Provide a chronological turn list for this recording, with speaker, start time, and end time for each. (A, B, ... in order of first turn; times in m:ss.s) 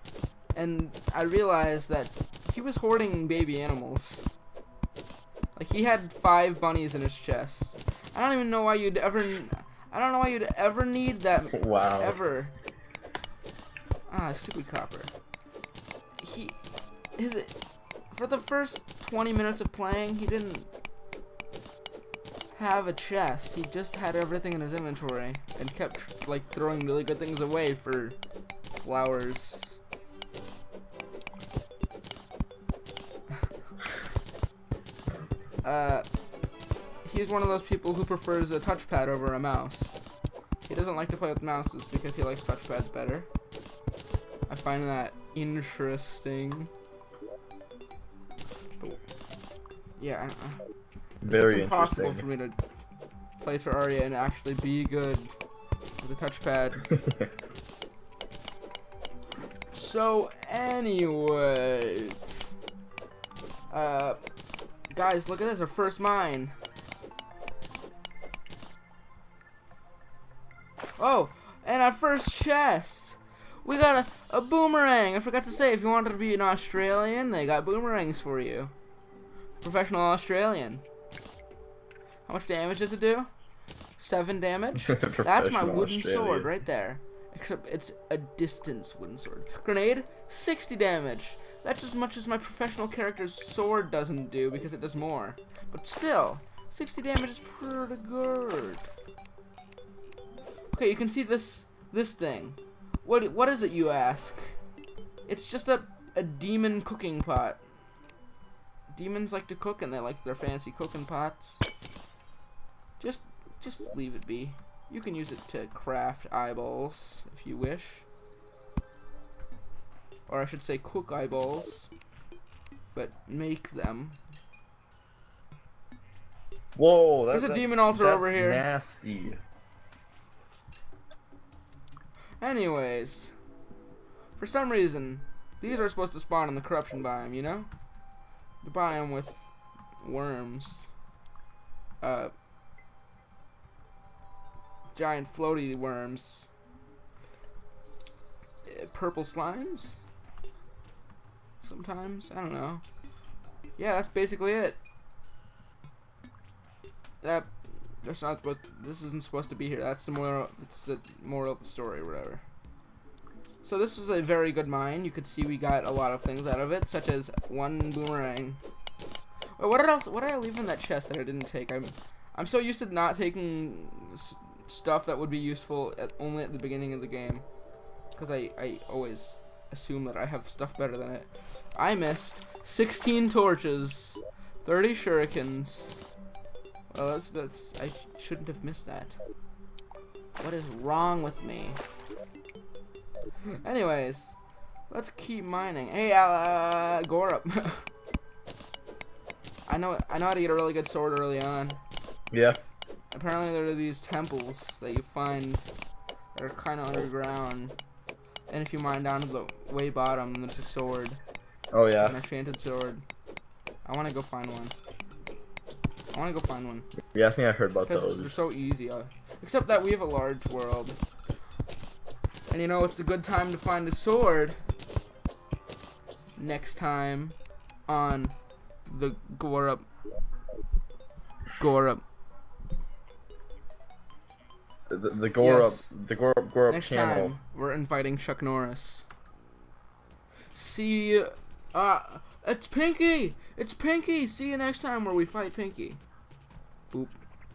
0:00.6-0:04.3 A
0:05.6-0:12.5 A
0:11.5-0:12.2 B
0:14.1-0:15.1 A
0:16.2-0:16.6 A
0:17.2-0:17.6 A
0:18.1-0:20.8 A
0:22.5-0:28.2 A
0:28.8-0:29.8 A
0:35.6-0:36.1 A
0:37.0-0:40.0 A
0:40.7-0:43.3 A
0:44.5-0:46.7 A
0:50.0-0:50.6 A
0:51.2-0:52.2 B
0:51.3-0:52.6 A
0:53.4-0:55.3 A
0:56.0-0:56.9 A
0:59.7-1:02.5 A
1:03.7-1:04.2 A
1:04.9-1:06.5 A
1:11.0-1:18.7 A
1:19.6-1:20.8 A
1:22.3-1:23.3 A
1:24.0-1:38.9 A
1:25.0-1:26.5 B
1:40.7-1:44.6 A
1:45.3-1:47.6 A
1:48.9-1:51.6 A
1:53.0-1:58.1 A
2:00.3-2:01.9 A
2:02.9-2:04.2 A
2:06.8-2:09.4 B
2:07.3-2:08.6 A
2:12.4-2:13.3 A
2:14.4-2:17.7 A
2:18.6-2:19.5 A
2:20.0-2:20.9 A
2:22.0-2:22.3 A
2:24.9-2:26.5 A
2:28.6-2:30.0 A
2:31.6-2:32.8 A
2:33.8-2:34.8 A
2:37.2-2:42.4 A
2:43.6-2:48.6 A
2:49.6-2:57.4 A
2:58.2-3:06.0 A
3:06.9-3:09.2 A
3:10.4-3:11.8 A
3:13.6-3:14.4 A
3:14.9-3:17.9 A
3:19.7-3:21.8 A
3:22.3-3:22.6 B
3:23.1-3:25.6 A
3:26.4-3:27.7 A
3:28.5-3:31.2 A
3:31.7-3:32.2 B
3:32.0-3:33.0 A
3:33.8-3:34.7 A
3:36.1-3:36.9 A
3:37.1-3:38.3 B
3:37.9-3:41.0 A
3:42.5-3:44.6 A
3:46.4-3:47.4 A
3:47.9-3:48.3 A
3:48.9-3:49.8 A
3:51.6-3:52.0 A
3:54.9-3:57.4 B
3:55.4-3:55.9 A
3:56.7-3:59.1 A
4:00.5-4:06.0 A